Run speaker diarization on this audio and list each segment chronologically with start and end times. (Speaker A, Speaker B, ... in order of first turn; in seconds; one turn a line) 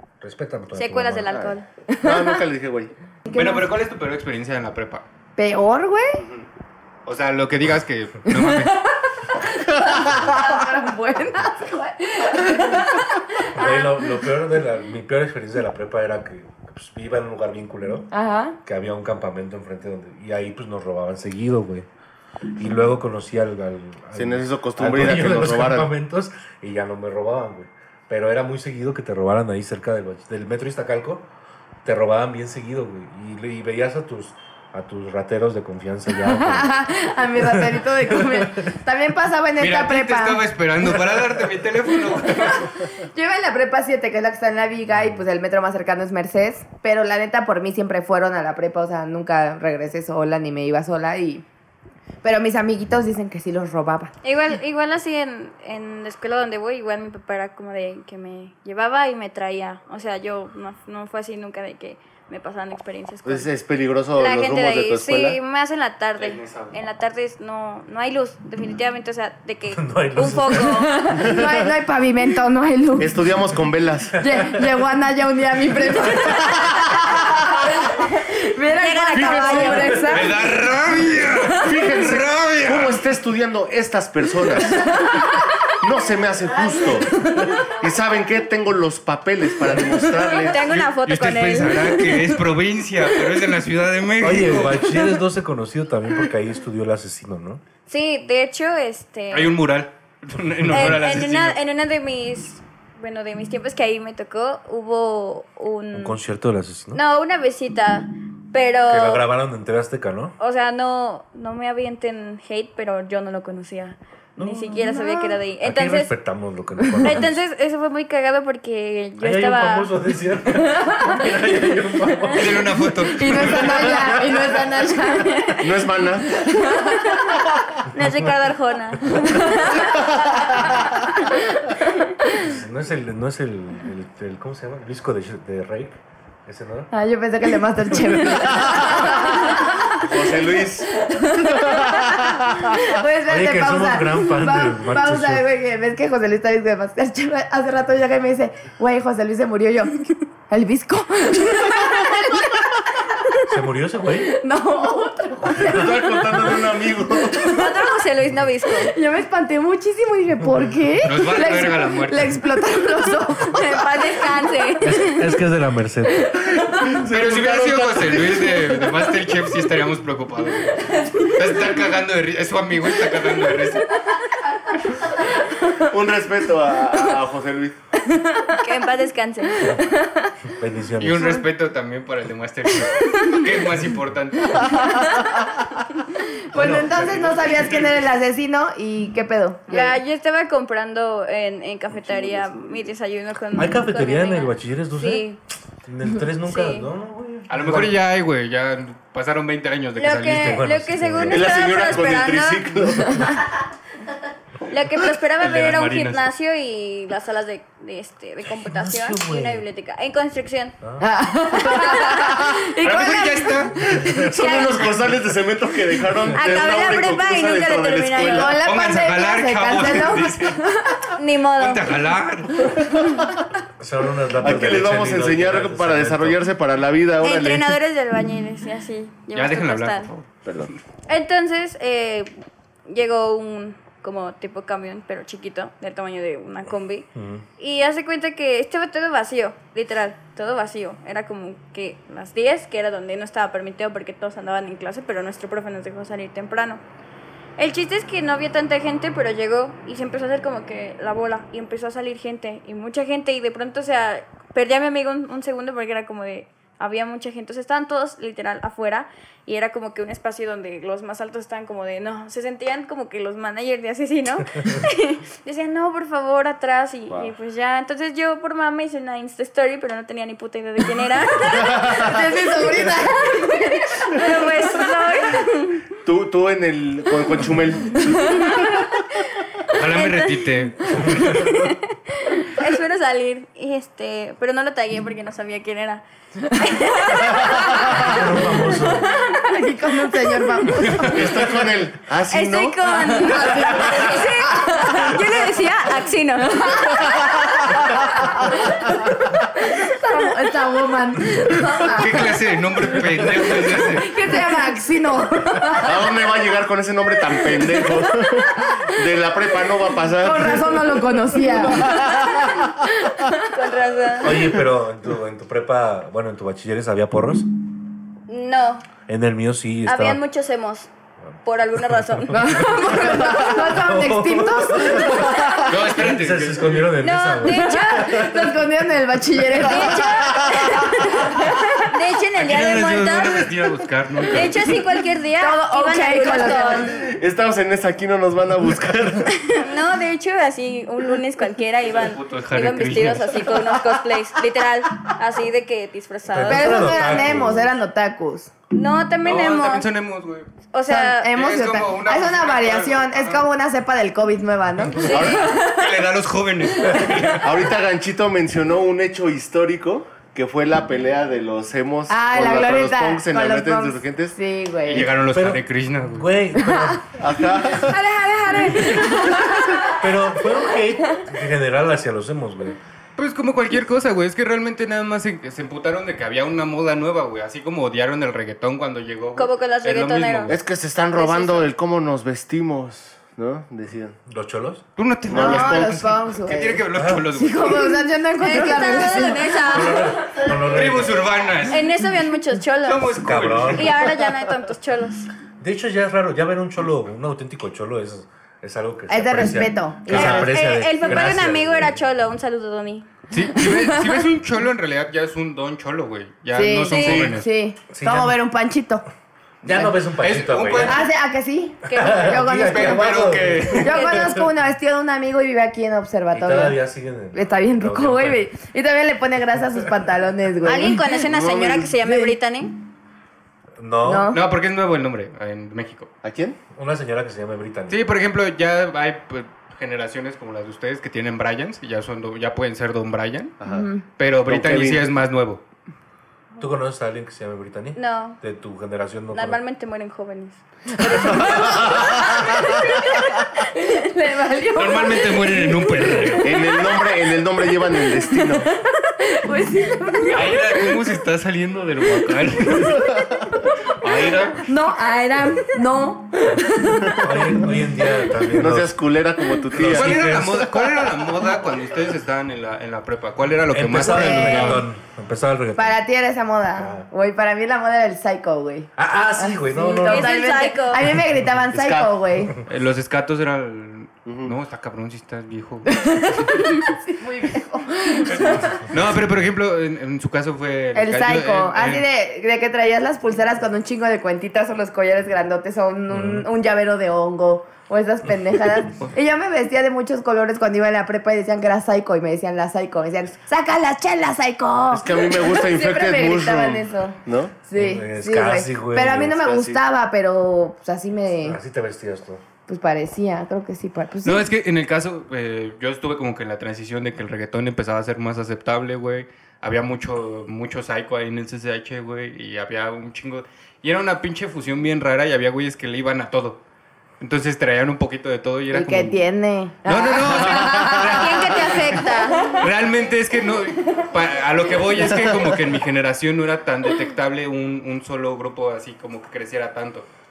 Speaker A: 0.2-1.3
Speaker B: 0.7-1.7
Speaker C: 1.3-2.9
Speaker D: 2.0-2.4
Speaker D: 3.3-3.7
Speaker E: 3.3-5.0
Speaker D: 5.4-6.2
Speaker E: 7.0-8.8
Speaker D: 8.3-14.2
Speaker A: 13.5-18.1
Speaker D: 18.1-18.6
Speaker A: 18.6-21.9
Speaker A: 22.6-31.3
Speaker C: 24.1-25.9
Speaker A: 31.8-36.7
Speaker D: 36.3-40.5
Speaker A: 37.4-38.7
Speaker E: 39.6-42.7
Speaker D: 42.2-51.5
Speaker D: 52.2-54.1
Speaker B: 54.2-63.5
Speaker C: 63.2-65.4
Speaker B: 64.2-71.0
Speaker E: 66.2-66.8
Speaker A: 69.7-70.9
Speaker D: 70.7-73.2
Speaker C: 71.2-71.7
Speaker C: 73.0-74.2
Speaker A: 74.2-74.7
Speaker D: 74.2-80.5
Speaker B: 78.8-80.2
Speaker C: 79.1-80.0
Speaker E: 80.1-83.0
Speaker C: 81.6-84.9
Speaker D: 84.7-85.5
Speaker C: 85.8-90.7
Speaker D: 86.8-87.6
Speaker B: 90.2-92.4
Speaker E: 90.5-94.9
Speaker A: 94.2-97.6
Speaker B: 97.9-99.6
Speaker E: 99.3-101.6
Speaker A: 100.6-101.1
Speaker B: 100.7-106.2
Speaker A: 105.9-107.0
Speaker B: 106.9-109.3
Speaker A: 108.9-110.4
Speaker B: 110.4-116.1
Speaker A: 114.4-114.9
Speaker D: 114.8-115.3
Speaker A: 115.6-117.4
Speaker B: 117.0-119.9
Speaker A: 119.2-124.5
Speaker D: 120.7-121.2
Speaker E: 122.3-123.7
Speaker D: 123.1-125.6
Speaker B: 125.1-125.9
Speaker C: 125.6-126.8
Speaker D: 126.3-127.3
Speaker B: 126.9-127.3
Speaker B: 127.9-130.7
Speaker A: 128.0-128.3
Speaker D: 129.1-129.5
Speaker D: 131.2-132.5
Speaker A: 132.4-136.9
Speaker D: 136.9-140.3
Speaker C: 138.5-142.9
Speaker D: 140.9-149.9
Speaker A: 143.3-145.4
Speaker D: 150.5-152.8
Speaker A: 153.4-154.4
Speaker D: 154.3-156.6
Speaker C: 155.5-157.7
Speaker D: 157.2-157.6
Speaker B: 157.4-158.9
Speaker D: 158.8-164.0
Speaker A: 160.4-160.7
Speaker E: 161.1-162.5
Speaker B: 163.5-165.2
Speaker A: 164.8-166.4
Speaker C: 166.6-168.9
Speaker E: 167.1-173.9
Speaker C: 175.8-177.8
Speaker D: 178.0-178.6
Speaker B: 178.6-179.8
Speaker D: 179.6-180.3
Speaker A: 180.6-181.4
Speaker E: 181.0-185.1
Speaker D: 186.5-190.0
Speaker A: 186.5-187.5
Speaker E: 186.9-188.0
Speaker B: 189.7-195.4
Speaker C: 192.1-192.6
Speaker A: 193.6-195.3
Speaker A: 195.8-198.0
Speaker B: 196.4-196.9
Speaker E: 197.5-200.8
Speaker B: 200.0-202.7
Speaker A: 200.3-201.9
Speaker C: 201.3-203.4
Speaker B: 204.7-210.8
Speaker E: 205.4-206.3
Speaker A: 208.4-209.7
Speaker D: 211.0-214.1
Speaker B: 211.6-212.4
Speaker E: 212.8-213.8
Speaker A: 214.0-214.3
Speaker C: 214.2-218.6
Speaker B: 214.2-214.9
Speaker B: 216.3-218.6
Speaker D: 218.2-221.1
Speaker E: 218.6-220.6
Speaker B: 221.2-222.0
Speaker E: 221.6-222.8
Speaker B: 222.9-223.2
Speaker A: 223.8-226.4
Speaker C: 224.4-227.8
Speaker B: 227.2-230.1
Speaker E: 229.3-230.7
Speaker C: 230.4-230.7
Speaker B: 231.1-232.3
Speaker B: 232.9-237.1
Speaker A: 237.2-237.4
Speaker B: 237.6-246.8
Speaker B: 247.6-272.2
Speaker C: 271.4-272.2
Speaker D: 271.8-274.2
Speaker B: 273.3-275.9
Speaker C: 276.0-278.8
Speaker B: 278.0-278.8
Speaker E: 279.7-281.5
Speaker B: 279.8-289.6
Speaker A: 281.1-281.4
Speaker A: 287.9-289.2
Speaker D: 289.4-291.3
Speaker B: 290.2-290.6
Speaker C: 291.0-292.8
Speaker B: 292.3-297.2
Speaker D: 293.1-294.9
Speaker D: 296.6-297.2
Speaker D: 298.5-298.9
Speaker D: 299.6-302.4
Speaker E: 301.8-304.1
Speaker D: 303.0-306.1
Speaker C: 305.8-312.7
Speaker D: 307.3-308.8
Speaker D: 310.2-313.5
Speaker B: 313.4-314.5
Speaker A: 314.2-317.5
Speaker B: 318.3-318.9
Speaker A: 319.1-320.2
Speaker B: 319.9-320.9
Speaker B: 321.4-323.5
Speaker A: 322.1-328.5
Speaker D: 322.3-325.5
Speaker E: 325.7-326.9
Speaker B: 327.0-328.2
Speaker D: 327.4-331.7
Speaker B: 329.6-333.5
Speaker C: 329.7-330.5
Speaker E: 332.4-334.8
Speaker B: 334.3-336.9
Speaker D: 335.4-337.0
Speaker C: 336.9-339.4
Speaker B: 339.4-347.3
Speaker E: 341.9-343.6
Speaker A: 346.3-347.8
Speaker D: 346.5-348.5
Speaker B: 348.7-349.9
Speaker E: 349.2-350.6
Speaker B: 350.7-351.3
Speaker D: 350.9-355.5
Speaker E: 351.3-353.4
Speaker B: 355.0-355.9
Speaker E: 355.1-357.5
Speaker C: 355.1-355.6
Speaker A: 356.9-357.4
Speaker C: 357.4-364.4
Speaker D: 362.1-365.1
Speaker E: 364.9-366.3
Speaker A: 365.3-367.1
Speaker D: 366.6-367.0
Speaker C: 367.2-368.0
Speaker D: 367.7-370.4
Speaker A: 368.8-369.2
Speaker A: 369.9-372.8
Speaker E: 373.2-380.6
Speaker B: 379.4-380.6
Speaker C: 380.5-384.2
Speaker B: 381.1-381.7
Speaker A: 384.3-384.8
Speaker E: 385.0-387.9
Speaker C: 385.3-386.0
Speaker D: 385.3-389.7
Speaker A: 386.9-387.3
Speaker B: 388.4-390.6
Speaker A: 389.6-391.3
Speaker E: 390.5-391.9
Speaker B: 391.6-395.3
Speaker E: 392.8-394.2
Speaker A: 393.2-394.1
Speaker A: 395.6-402.1
Speaker D: 399.1-400.6
Speaker E: 400.1-400.4
Speaker B: 400.1-403.1
Speaker E: 403.3-407.5
Speaker D: 403.6-404.2
Speaker D: 406.5-409.1
Speaker C: 406.9-407.4
Speaker A: 407.9-408.4
Speaker A: 409.6-411.1
Speaker D: 409.6-409.9
Speaker E: 410.2-411.1
Speaker D: 410.9-413.2
Speaker A: 411.9-414.1
Speaker B: 411.9-412.5
Speaker E: 412.7-414.0
Speaker D: 413.8-416.8
Speaker B: 413.9-414.3
Speaker A: 416.3-418.4
Speaker D: 417.3-421.1
Speaker B: 420.6-422.8
Speaker C: 421.2-422.0
Speaker D: 422.0-422.4
Speaker A: 423.8-424.4
Speaker D: 424.0-424.4
Speaker E: 424.3-426.1
Speaker C: 426.2-426.6
Speaker A: 426.8-428.1
Speaker E: 427.9-433.6
Speaker C: 433.6-433.9
Speaker D: 433.6-434.0
Speaker E: 434.1-435.6
Speaker C: 434.4-435.0
Speaker A: 436.6-439.6
Speaker B: 438.0-438.4
Speaker B: 439.3-444.1
Speaker D: 441.0-446.6
Speaker C: 441.3-442.8
Speaker E: 444.8-446.6
Speaker C: 446.4-448.7
Speaker D: 449.2-450.8
Speaker E: 450.3-453.1
Speaker E: 454.0-454.6
Speaker D: 454.6-458.1
Speaker A: 457.2-459.0
Speaker C: 458.5-461.1
Speaker A: 459.7-460.7
Speaker E: 459.8-464.8
Speaker A: 463.7-466.0
Speaker D: 464.0-464.9
Speaker D: 465.8-472.6
Speaker A: 466.8-467.1
Speaker A: 469.0-470.4
Speaker B: 470.1-471.1
Speaker C: 471.7-472.1
Speaker E: 472.7-476.7
Speaker C: 474.2-474.6
Speaker D: 476.1-478.9
Speaker E: 478.9-482.1
Speaker D: 480.9-501.6
Speaker A: 486.1-486.5
Speaker C: 494.9-497.6
Speaker A: 497.7-499.4
Speaker C: 499.4-499.8
Speaker A: 501.4-502.4
Speaker D: 502.7-504.5
Speaker E: 504.2-516.6
Speaker E: 517.2-519.2
Speaker D: 518.7-521.2
Speaker E: 519.8-530.1
Speaker B: 521.0-522.6
Speaker D: 522.1-522.6